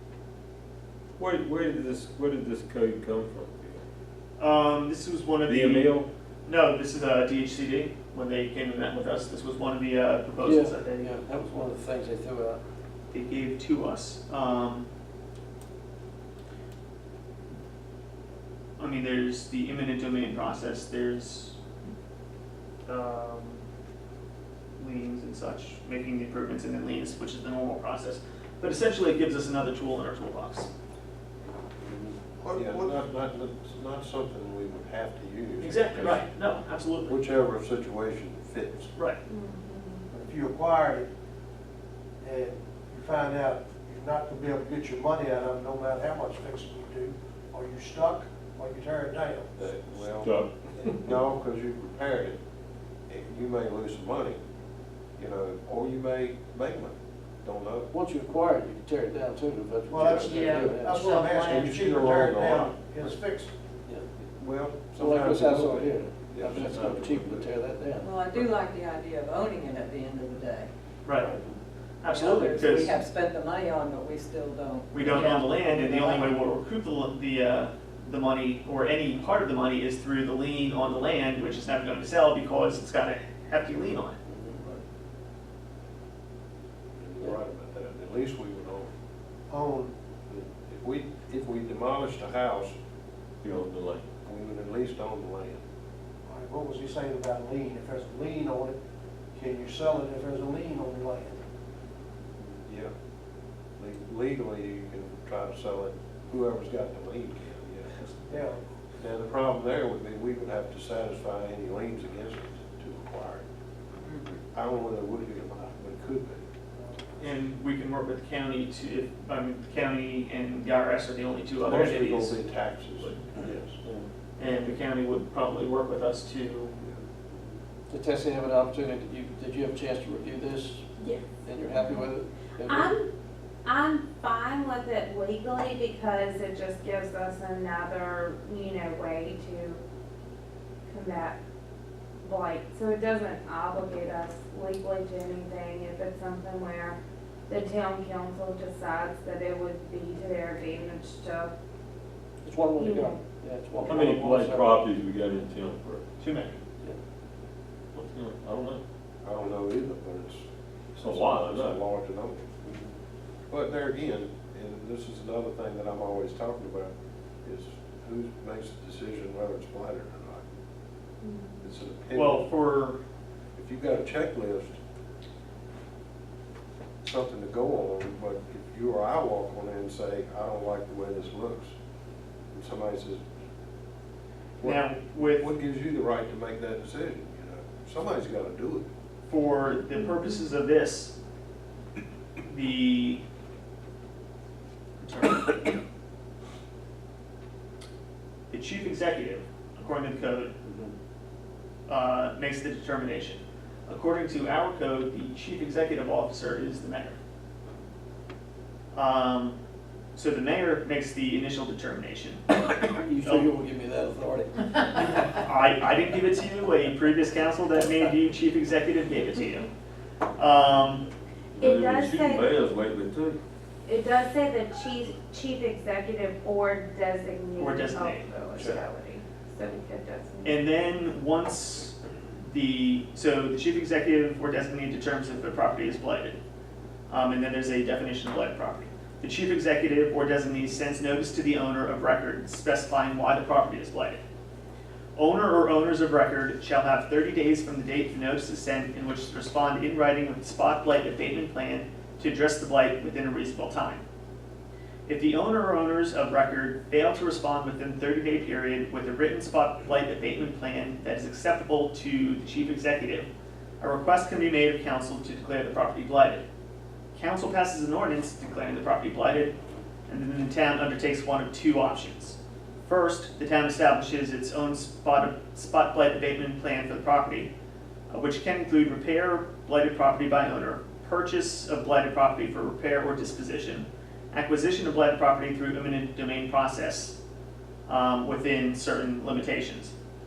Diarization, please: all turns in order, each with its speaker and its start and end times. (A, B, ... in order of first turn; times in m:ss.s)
0:01.2-0:03.8 A
0:04.4-0:11.1 B
0:05.4-0:06.1 A
0:10.4-0:12.6 C
0:13.1-0:14.9 B
0:18.8-0:21.6 B
0:22.9-0:23.6 B
0:24.8-0:30.7 B
0:32.4-0:33.0 D
0:32.5-0:36.3 E
0:35.6-0:37.1 B
0:37.0-0:38.9 E
0:39.3-0:40.0 F
0:40.1-0:41.1 D
0:42.2-0:49.5 D
0:49.6-0:52.4 E
0:50.1-0:50.9 A
0:53.1-0:54.4 E
0:55.2-0:57.9 E
0:57.9-1:01.2 C
0:59.9-1:03.5 D
1:00.2-1:01.4 G
1:01.4-1:02.7 E
1:04.4-1:07.5 E
1:04.9-1:08.2 C
1:08.0-1:10.7 G
1:11.0-1:11.4 B
1:12.0-1:12.9 B
1:12.0-1:16.4 G
1:14.9-1:24.2 B
1:26.9-1:28.9 E
1:29.5-1:29.9 D
1:30.3-1:32.7 E
1:33.4-1:34.0 A
1:34.2-1:35.6 E
1:36.2-1:38.7 D
1:39.4-1:41.4 D
1:42.4-1:42.9 E
1:43.8-1:48.4 E
1:48.3-1:48.6 D
1:49.0-1:53.4 E
1:54.5-1:56.4 E
1:57.2-2:03.2 B
2:01.6-2:03.8 E
2:04.4-2:06.7 B
2:07.9-2:10.9 C
2:11.0-2:13.1 F
2:11.4-2:12.9 C
2:13.6-2:19.8 F
2:20.9-2:21.4 F
2:22.2-2:27.0 F
2:27.5-2:31.5 F
2:32.4-2:34.8 C
2:32.8-2:33.2 F
2:33.8-2:36.1 A
2:36.2-2:36.6 B
2:37.9-2:38.8 A
2:39.2-2:40.4 E
2:41.0-2:41.8 A
2:41.0-2:42.5 E
2:43.5-2:46.9 E
2:47.4-2:50.4 E
2:51.2-2:51.7 F
2:51.6-2:52.5 E
2:52.1-2:53.0 B
2:53.6-2:54.8 E
2:57.0-3:01.7 E
3:02.5-3:03.2 E
3:04.6-3:08.9 E
3:04.6-3:05.5 B
3:09.3-3:11.1 B
3:12.5-3:13.2 B
3:15.0-3:15.8 B
3:18.5-3:20.5 B
3:21.9-3:27.2 B
3:28.9-3:29.6 B
3:30.2-3:32.5 B
3:32.7-3:35.2 C
3:33.2-3:33.5 B
3:34.9-3:39.7 B
3:40.4-3:41.0 B
3:41.6-3:43.4 A
3:41.6-3:42.5 F
3:43.8-3:50.6 F
3:47.6-3:48.7 B
3:50.4-3:56.4 B
3:57.1-4:04.2 B
4:05.2-4:14.0 B
4:15.1-4:23.3 B
4:23.8-4:26.4 B
4:27.1-4:29.5 B
4:30.1-4:32.4 B
4:32.9-4:37.5 B
4:38.1-4:47.2 B
4:47.9-4:49.9 B